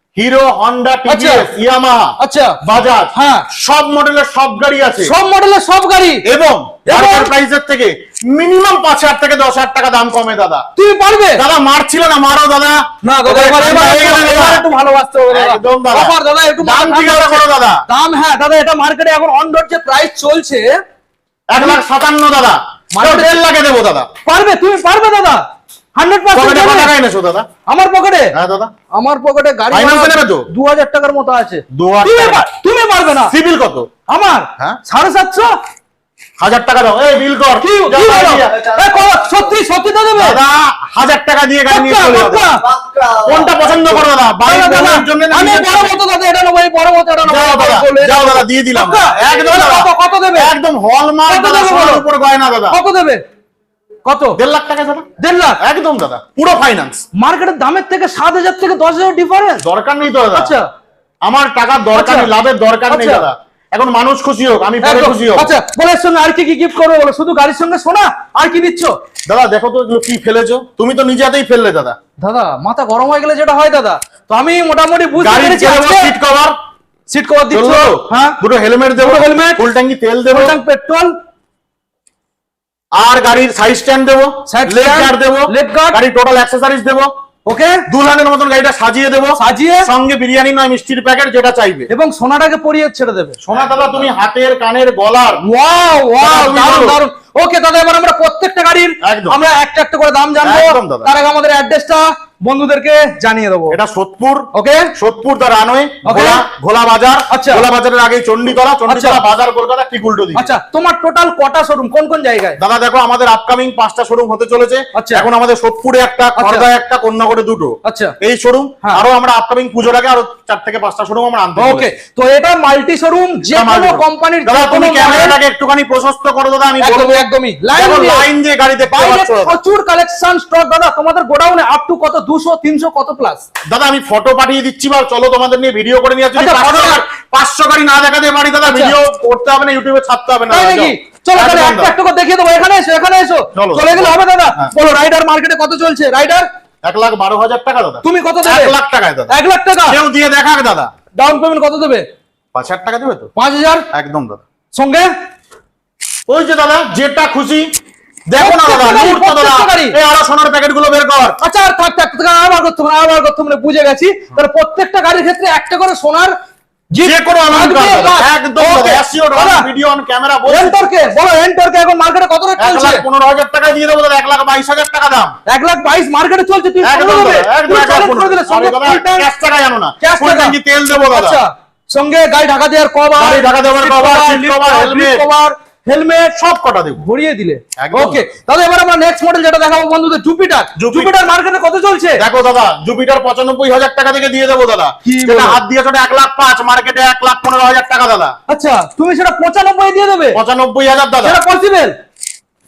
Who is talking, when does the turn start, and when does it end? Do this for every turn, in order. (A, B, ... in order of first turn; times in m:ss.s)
0:00.2-0:05.1 A
0:01.1-0:01.5 B
0:02.2-0:02.6 B
0:03.1-0:03.4 B
0:05.0-0:06.2 B
0:06.2-0:10.6 A
0:06.8-0:07.3 B
0:10.8-0:11.4 B
0:11.3-0:14.7 A
0:13.0-0:20.7 B
0:15.3-0:17.8 A
0:21.5-0:24.1 A
0:21.6-0:21.8 B
0:22.9-0:23.4 B
0:24.2-0:25.4 B
0:26.0-0:26.9 B
0:26.3-0:27.5 A
0:27.7-0:28.3 B
0:28.3-0:28.7 A
0:28.9-0:33.3 B
0:29.7-0:30.5 A
0:31.7-0:32.5 A
0:33.3-0:33.9 A
0:34.1-0:35.5 B
0:36.4-0:38.5 A
0:37.6-0:40.4 B
0:38.3-0:39.5 C
0:40.2-0:42.4 A
0:41.7-0:42.6 B
0:42.6-0:44.1 C
0:43.2-0:46.0 A
0:44.4-0:50.5 B
0:47.2-0:52.8 A
0:51.3-0:52.1 B
0:52.7-0:53.2 B
0:54.1-0:54.4 B
0:54.3-0:55.1 A
0:55.2-0:55.6 B
0:55.6-0:57.0 A
0:57.2-0:59.6 B
0:59.6-1:00.6 A
1:00.3-1:00.7 B
1:01.2-1:05.6 A
1:01.9-1:02.3 B
1:02.9-1:03.3 B
1:04.8-1:08.9 B
1:09.3-1:12.0 A
1:12.2-1:16.2 B
1:15.2-1:16.6 A
1:17.1-1:18.4 B
1:17.5-1:20.6 A
1:19.0-1:19.7 B
1:20.3-1:21.2 B
1:22.9-1:27.1 A
1:24.5-1:26.0 B
1:27.5-1:27.8 B
1:27.9-1:31.9 A
1:29.3-1:29.9 B
1:31.9-1:33.4 B
1:33.4-1:35.4 A
1:35.4-1:43.8 B
1:36.2-1:37.0 A
1:39.0-1:39.4 A
1:40.4-1:41.1 A
1:43.7-1:50.5 A
1:44.5-1:44.9 B
1:46.0-1:46.5 B
1:47.3-1:47.7 B
1:48.9-1:49.2 B
1:50.3-1:52.6 B
1:52.6-2:01.9 A
1:54.9-1:55.3 B
1:56.4-1:56.7 B
1:57.8-1:58.2 B
2:01.6-2:05.4 B
2:03.5-2:09.6 A
2:06.8-2:08.3 B
2:08.9-2:13.4 B
2:13.7-2:22.0 A
2:16.4-2:17.0 B
2:18.7-2:19.0 B
2:20.5-2:26.5 B
2:23.5-2:24.7 A
2:26.8-2:30.9 A
2:28.0-2:28.8 B
2:29.3-2:30.0 B
2:31.1-2:32.0 B
2:32.5-2:33.3 A
2:33.4-2:33.8 B
2:33.9-2:34.4 A
2:34.7-2:35.1 B
2:36.3-2:37.7 A
2:38.3-2:41.4 A
2:38.4-2:40.0 B
2:41.4-2:46.3 B
2:46.9-2:49.7 B
2:47.0-2:50.9 A
2:50.5-2:53.0 B
2:52.6-2:55.3 A
2:55.5-2:59.3 B
2:56.8-3:01.4 A
3:00.0-3:06.4 B
3:03.2-3:05.3 A
3:06.3-3:07.0 A
3:07.0-3:12.2 B
3:07.8-3:08.2 A
3:10.8-3:11.1 A
3:12.2-3:18.4 A
3:15.0-3:15.6 B
3:18.5-3:20.4 B
3:20.3-3:21.4 A
3:21.2-3:22.0 B